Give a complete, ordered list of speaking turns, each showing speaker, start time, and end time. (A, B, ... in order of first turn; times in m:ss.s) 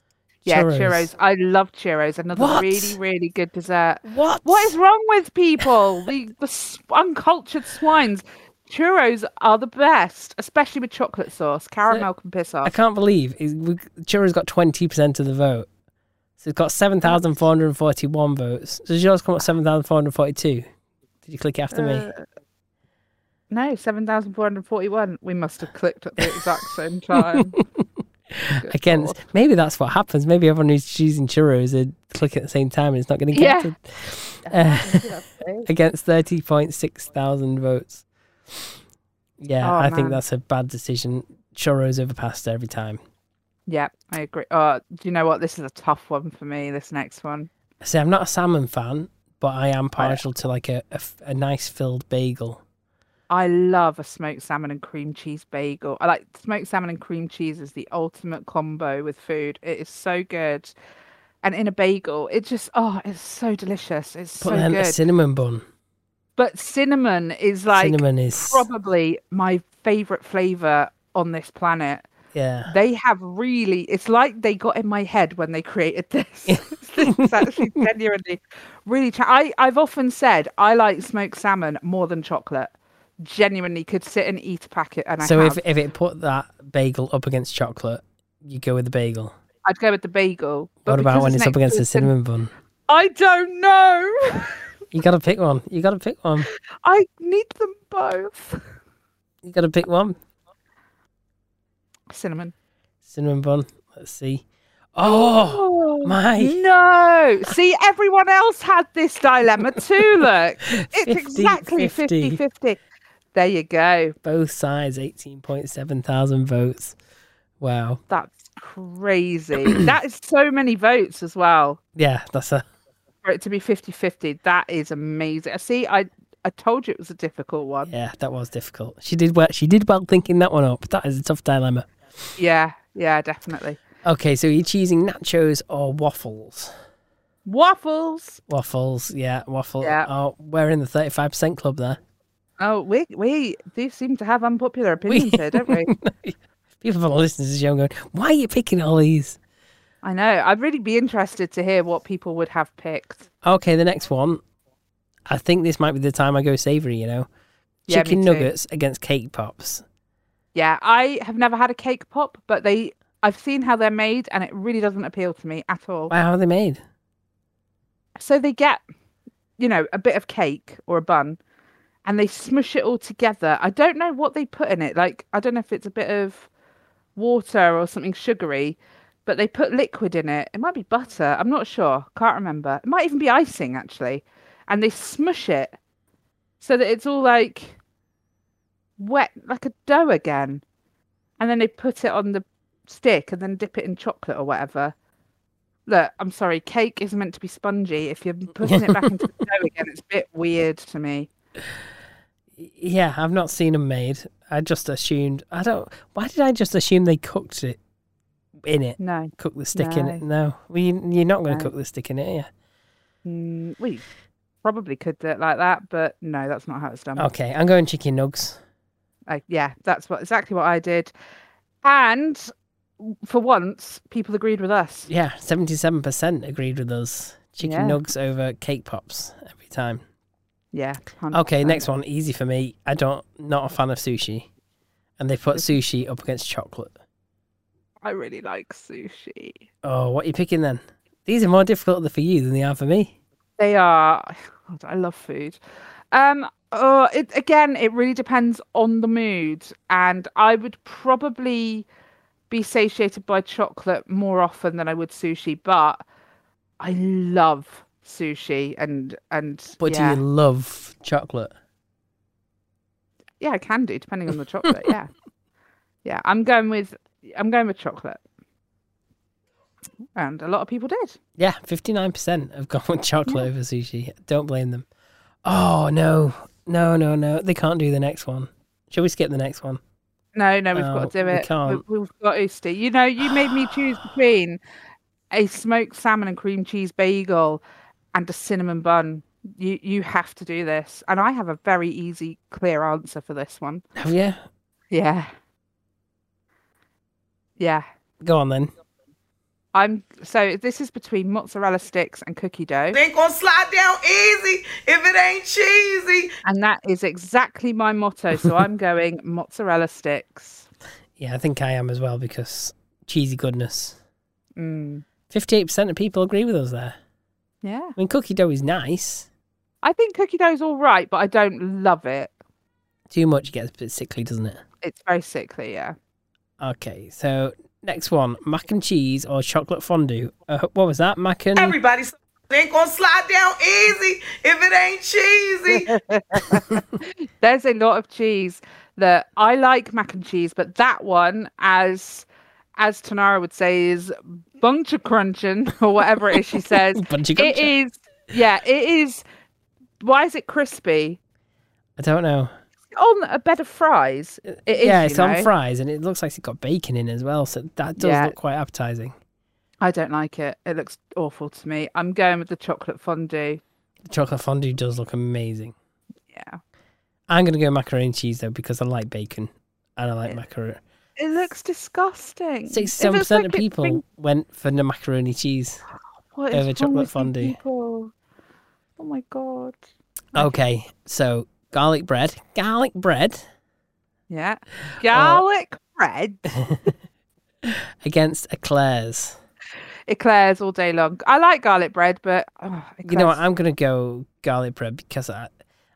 0:00.4-0:01.1 A
0:00.5-0:12.7 B
0:02.3-0:03.0 A
0:04.0-0:04.8 A
0:12.6-0:15.7 A
0:16.4-0:20.7 A
0:21.2-0:22.1 A
0:21.7-0:22.3 B
0:23.5-0:27.6 B
0:27.2-0:27.6 A
0:28.3-0:35.1 A
0:28.5-0:29.2 B
0:33.3-0:33.7 B
0:34.4-0:35.7 B
0:35.6-0:38.0 A
0:39.4-0:43.0 A
0:39.6-0:40.2 B
0:43.7-0:47.5 B
0:47.8-0:52.6 A
0:50.0-0:50.2 B
0:53.3-1:00.7 B
1:01.4-1:05.0 B
1:04.4-1:05.6 A
1:06.4-1:12.1 B
1:07.7-1:08.7 A
1:12.3-1:12.7 A
1:12.7-1:25.6 B
1:16.5-1:17.4 A
1:25.2-1:29.4 A
1:29.6-1:32.1 B
1:30.9-1:32.5 A
1:32.9-1:34.6 B
1:34.9-1:36.5 A
1:36.5-1:38.6 B
1:39.4-1:40.2 A
1:42.1-1:42.5 B
1:43.1-1:46.6 A
1:45.0-1:52.8 B
1:50.8-1:52.4 A
1:53.3-1:54.2 B
1:54.2-1:57.0 A
1:57.6-1:58.0 A
1:58.1-2:01.8 B
2:02.0-2:02.6 A
2:03.2-2:07.9 B
2:07.9-2:11.9 A
2:12.4-2:13.8 B
2:14.0-2:16.7 A
2:17.5-2:18.4 B
2:18.5-2:22.0 A
2:19.8-2:20.1 B
2:22.6-2:25.9 B
2:25.0-2:29.4 A
2:30.0-2:33.2 B
2:33.4-2:34.4 A
2:35.3-2:37.3 A
2:37.9-2:38.5 B
2:37.9-2:39.8 A
2:40.6-2:46.1 B
2:46.1-2:46.8 A
2:48.2-2:48.8 B
2:49.6-2:51.4 B
2:52.0-2:56.5 B
2:57.2-3:05.8 B
3:06.6-3:07.8 B
3:09.0-3:10.6 B
3:11.4-3:15.0 B
3:15.9-3:21.3 B
3:18.6-3:19.1 A
3:22.6-3:27.8 A
3:28.6-3:32.5 A
3:29.0-3:30.2 B
3:33.2-3:34.0 B
3:34.6-3:37.3 B
3:37.2-3:38.6 A
3:39.3-3:41.1 B
3:41.8-3:45.1 B
3:45.1-3:50.0 A
3:47.6-3:48.0 B
3:50.7-3:51.8 B
3:51.3-3:54.5 A
3:55.2-3:56.9 A
3:58.0-3:59.6 B
3:59.8-4:03.1 A
4:03.6-4:05.6 B
4:06.1-4:11.9 B
4:12.5-4:16.0 B
4:16.8-4:20.2 B
4:19.8-4:21.5 A
4:23.4-4:25.1 B
4:26.0-4:28.2 B
4:30.2-4:31.2 B
4:31.4-4:34.9 A
4:35.4-4:39.8 A
4:40.4-4:44.6 B
4:40.8-4:41.8 A
4:45.3-4:47.6 B
4:48.1-4:53.8 B
4:54.0-4:54.4 A
4:54.9-4:55.3 B
4:57.6-4:57.8 B
4:58.2-4:58.7 A
4:59.7-5:03.0 B
5:02.9-5:06.3 C
5:06.4-5:10.7 B
5:11.2-5:14.0 A
5:14.6-5:15.0 B
5:15.3-5:17.0 A
5:17.6-5:18.0 B
5:18.0-5:19.3 A
5:19.8-5:22.3 B
5:23.1-5:24.6 A
5:24.8-5:26.0 B
5:26.6-5:31.8 A
5:31.6-5:35.9 C
5:35.9-5:49.2 B
5:46.7-5:47.7 A
5:50.0-5:51.2 B
5:52.0-5:52.5 A
5:52.9-5:55.5 B
5:54.7-5:59.2 A
5:58.0-5:58.4 B
5:59.8-6:03.6 B
6:04.1-6:05.8 A
6:06.3-6:06.6 B
6:07.3-6:10.8 A
6:11.2-6:14.0 B
6:12.7-6:15.8 A
6:16.4-6:18.1 B
6:16.5-6:17.6 A
6:19.0-6:19.8 B
6:20.3-6:23.4 A
6:24.3-6:26.5 B
6:25.1-6:25.4 A
6:26.5-6:26.9 A
6:27.6-6:29.4 A
6:30.1-6:33.4 B
6:33.0-6:35.5 A